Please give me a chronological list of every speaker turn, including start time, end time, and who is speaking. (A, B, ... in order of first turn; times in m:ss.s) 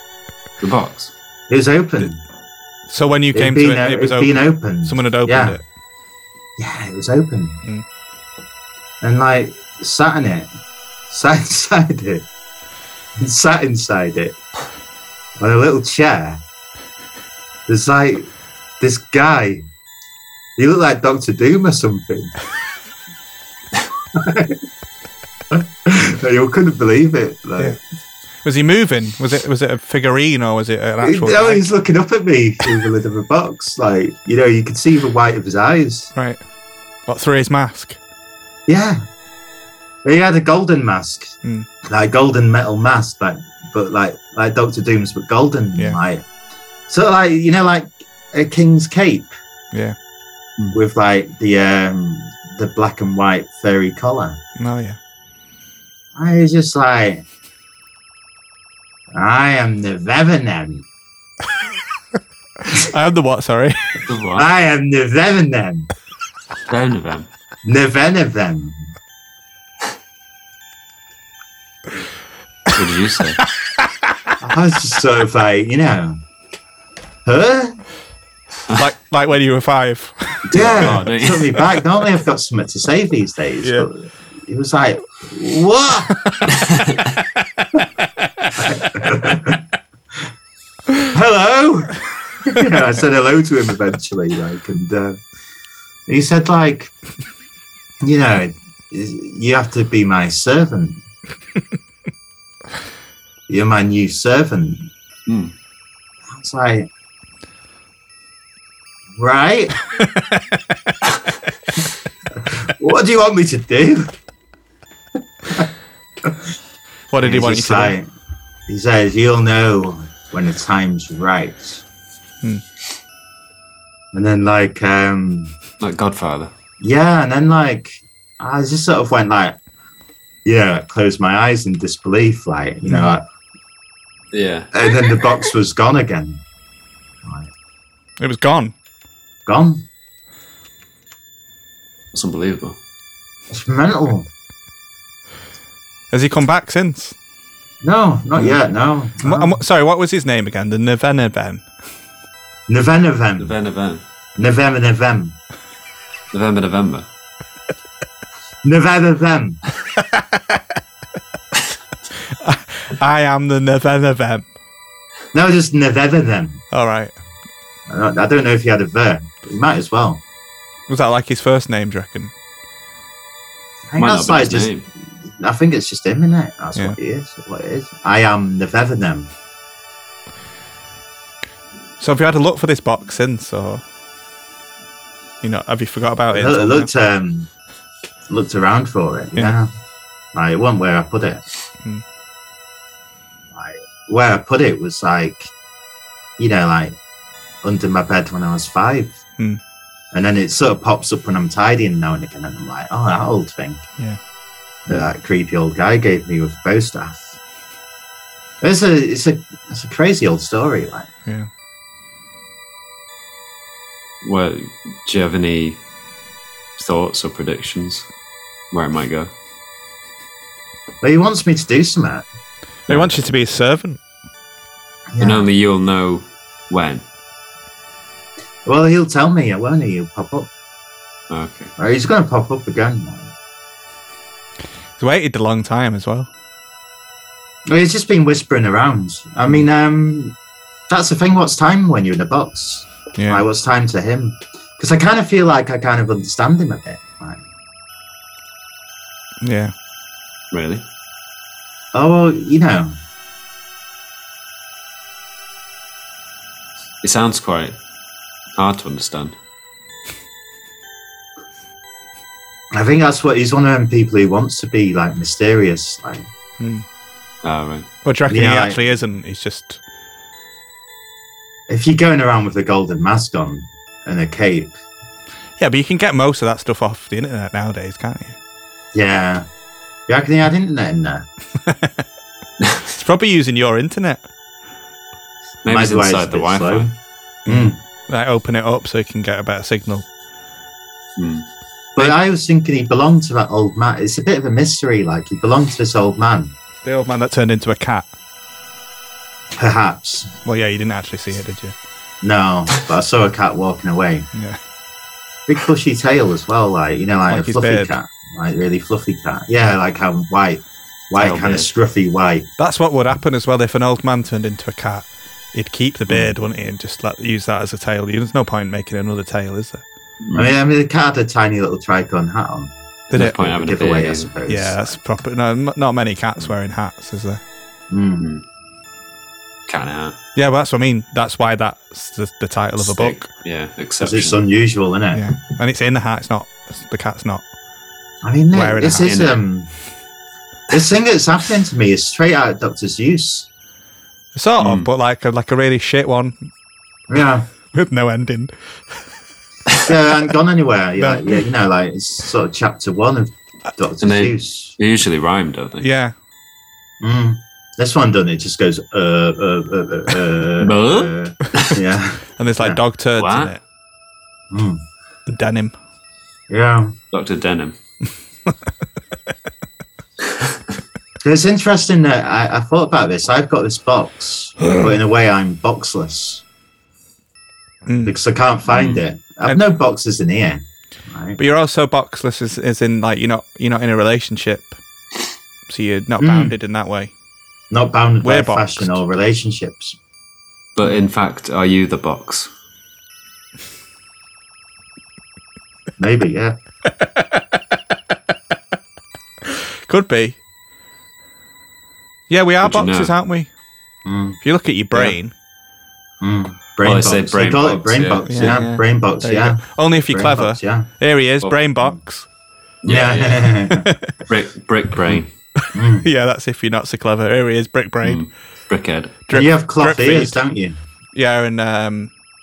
0:00.6-0:01.1 A
0:01.5-0:02.2 B
0:02.9-0:05.6 C
0:03.3-0:05.6 B
0:06.6-0:07.6 B
0:09.0-0:10.5 B
0:11.1-0:12.2 B
0:13.2-0:14.4 B
0:15.4-0:16.4 B
0:17.7-0:19.6 B
0:20.6-0:22.4 B
0:24.1-0:24.6 B
0:25.5-0:27.8 B
0:28.4-0:31.6 C
0:31.0-0:36.1 B
0:36.1-0:36.4 C
0:37.1-0:38.0 C
0:38.7-0:39.0 B
0:40.0-0:46.2 B
0:46.9-0:49.3 B
0:50.7-0:54.4 B
0:54.6-0:55.0 C
0:56.2-0:57.2 B
0:59.1-1:00.9 B
1:02.7-1:04.0 C
1:04.1-1:04.5 A
1:04.4-1:05.9 B
1:06.7-1:07.3 A
1:07.6-1:08.9 B
1:12.7-1:13.4 A
1:13.7-1:13.9 C
1:14.4-1:16.2 B
1:17.2-1:17.8 B
1:18.7-1:21.0 C
1:20.5-1:21.6 A
1:20.5-1:26.2 B
1:26.5-1:27.2 A
1:28.2-1:29.1 C
1:28.6-1:29.6 B
1:31.1-1:35.2 B
1:36.1-1:36.9 B
1:38.0-1:41.0 B
1:43.5-1:44.9 B
1:45.3-1:45.5 A
1:46.3-1:46.9 B
1:49.2-1:49.8 B
1:50.0-1:50.6 C
1:52.4-1:54.1 B
1:56.2-1:56.5 B
1:57.1-1:58.0 C
1:57.2-1:58.1 B
1:58.7-2:01.8 B
2:04.1-2:05.6 B
2:05.8-2:06.5 A
2:06.8-2:09.6 B
2:10.4-2:13.2 B
2:12.9-2:13.1 C
2:14.3-2:14.7 A
2:14.7-2:16.4 B
2:17.2-2:17.5 B
2:18.2-2:18.7 C
2:19.5-2:19.9 B
2:22.1-2:22.8 A
2:23.5-2:24.3 B
2:26.1-2:27.1 C
2:27.8-2:29.6 B
2:29.2-2:31.6 C
2:32.7-2:33.6 B
2:33.4-2:34.0 A
2:34.4-2:35.4 B
2:36.3-2:37.1 A
2:38.6-2:39.6 B
2:42.3-2:44.4 C
2:45.3-2:46.6 B
2:46.7-2:47.1 C
2:47.9-2:50.2 B
2:50.9-2:52.3 C
2:53.9-2:59.3 B
2:54.0-2:54.9 A
3:02.0-3:03.8 C
3:05.4-3:06.9 C
3:06.3-3:07.5 B
3:08.3-3:09.7 B
3:10.3-3:11.4 B
3:13.5-3:15.5 B
3:16.4-3:17.0 B
3:17.6-3:19.2 B
3:20.1-3:23.8 B
3:24.9-3:27.4 B
3:28.6-3:31.1 B
3:34.2-3:35.8 A
3:36.8-3:38.1 A
3:38.7-3:39.3 A
3:41.0-3:42.2 B
3:42.9-3:43.2 A
3:42.9-3:44.0 C
3:45.1-3:45.5 B
3:45.2-3:47.0 A
3:48.7-3:50.5 B
3:51.3-3:51.7 A
3:51.8-3:53.3 B
3:55.0-3:56.3 C
3:57.7-4:00.4 B
4:00.9-4:07.4 B
4:03.2-4:03.4 C
4:09.4-4:09.7 C
4:10.5-4:10.8 A
4:11.9-4:13.0 B
4:17.0-4:17.8 A
4:18.5-4:19.3 A
4:22.7-4:26.3 B
4:26.6-4:26.8 C
4:27.4-4:27.9 A
4:28.0-4:29.8 C
4:28.3-4:28.9 B
4:31.7-4:34.7 B
4:35.6-4:38.4 C
4:38.9-4:39.5 B
4:40.1-4:41.2 B
4:41.7-4:41.9 C
4:42.8-4:44.2 C
4:45.6-4:46.9 A
4:45.7-4:46.9 B
4:47.5-4:47.8 B
4:47.5-4:50.1 C
4:51.2-4:51.5 A
4:52.0-4:56.5 B
4:56.8-4:58.1 C
4:59.6-5:00.3 B
5:00.4-5:01.7 C
5:02.2-5:04.3 B
5:04.3-5:04.6 C
5:05.5-5:12.5 B
5:07.3-5:07.9 C
5:11.2-5:11.7 A
5:12.6-5:19.8 C
5:20.2-5:20.6 A
5:20.4-5:22.7 B
5:23.1-5:23.4 C
5:23.1-5:24.3 A
5:23.2-5:24.9 B
5:24.5-5:27.4 C
5:27.9-5:28.3 B
5:29.7-5:30.2 A
5:30.4-5:33.3 C
5:32.8-5:34.4 A
5:34.0-5:35.2 B
5:35.1-5:37.4 C
5:38.2-5:39.7 B
5:38.5-5:39.1 C
5:39.0-5:39.4 A
5:40.7-5:43.5 B
5:44.4-5:46.5 C
5:44.6-5:44.9 A
5:47.1-5:47.5 B
5:47.7-5:48.5 C
5:49.8-5:54.8 B
5:51.0-5:51.4 C
5:54.0-5:55.9 A
5:55.8-5:56.1 C
5:57.0-6:02.8 B
6:00.6-6:01.8 A
6:02.4-6:03.6 C
6:03.2-6:03.6 A
6:04.5-6:04.8 B
6:05.3-6:05.8 C
6:06.5-6:07.0 B
6:07.1-6:07.8 A
6:10.3-6:10.6 A
6:11.2-6:16.4 B
6:17.9-6:18.2 C
6:18.0-6:21.4 B
6:18.7-6:19.0 A
6:21.4-6:24.8 C
6:25.7-6:27.1 C
6:26.2-6:26.5 B
6:27.7-6:30.0 B
6:28.2-6:29.0 C
6:30.8-6:32.5 A
6:36.0-6:36.6 B
6:37.0-6:37.4 C
6:39.9-6:40.4 C
6:42.3-6:43.5 C
6:42.6-6:43.1 A
6:44.0-6:44.4 B
6:44.4-6:45.3 C
6:46.2-6:50.9 B
6:46.8-6:48.6 A
6:48.3-6:52.3 C
6:52.8-6:53.6 A
6:52.9-6:53.9 B
6:53.8-6:54.1 C
6:54.3-6:55.3 A
6:55.6-6:58.2 C
6:55.7-6:56.1 B
6:58.0-6:59.2 A
6:59.3-7:00.4 C
6:59.3-7:00.8 B
7:01.1-7:02.1 C